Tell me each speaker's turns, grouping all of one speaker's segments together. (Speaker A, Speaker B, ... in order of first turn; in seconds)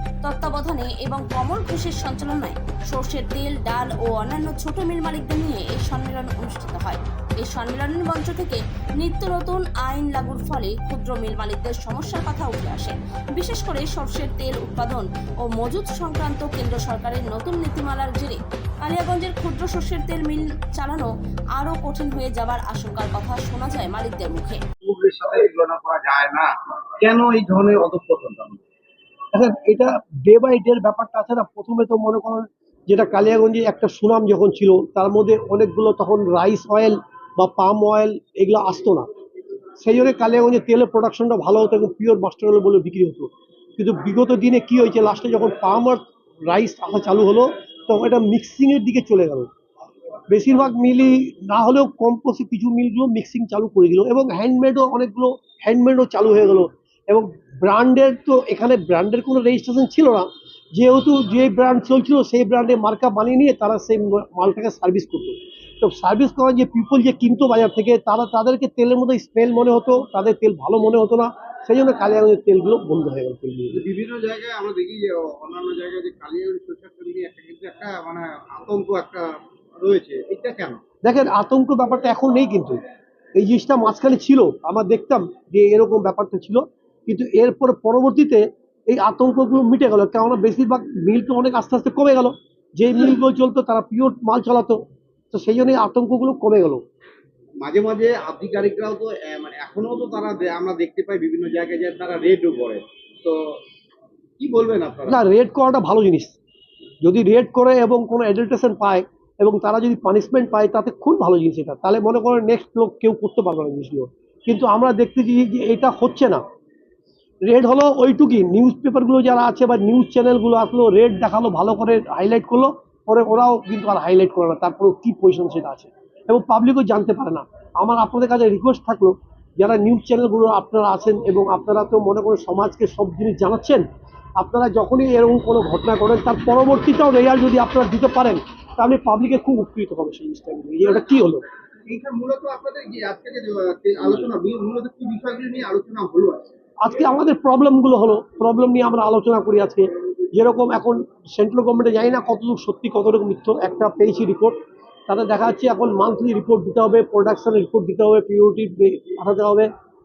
Speaker A: 0.2-24.6
Speaker B: 24.8-28.6, 73.7-80.8, 97.6-103.5, 104.4-105.2, 141.9-146.5
Speaker C: 29.3-39.1, 39.8-49.5, 50.3-73.8, 81.0-82.8, 83.3-94.8, 95.3-96.8, 105.1-106.4, 107.0-116.4, 117.4-133.8, 134.4-141.4, 146.8-154.6, 155.1-159.7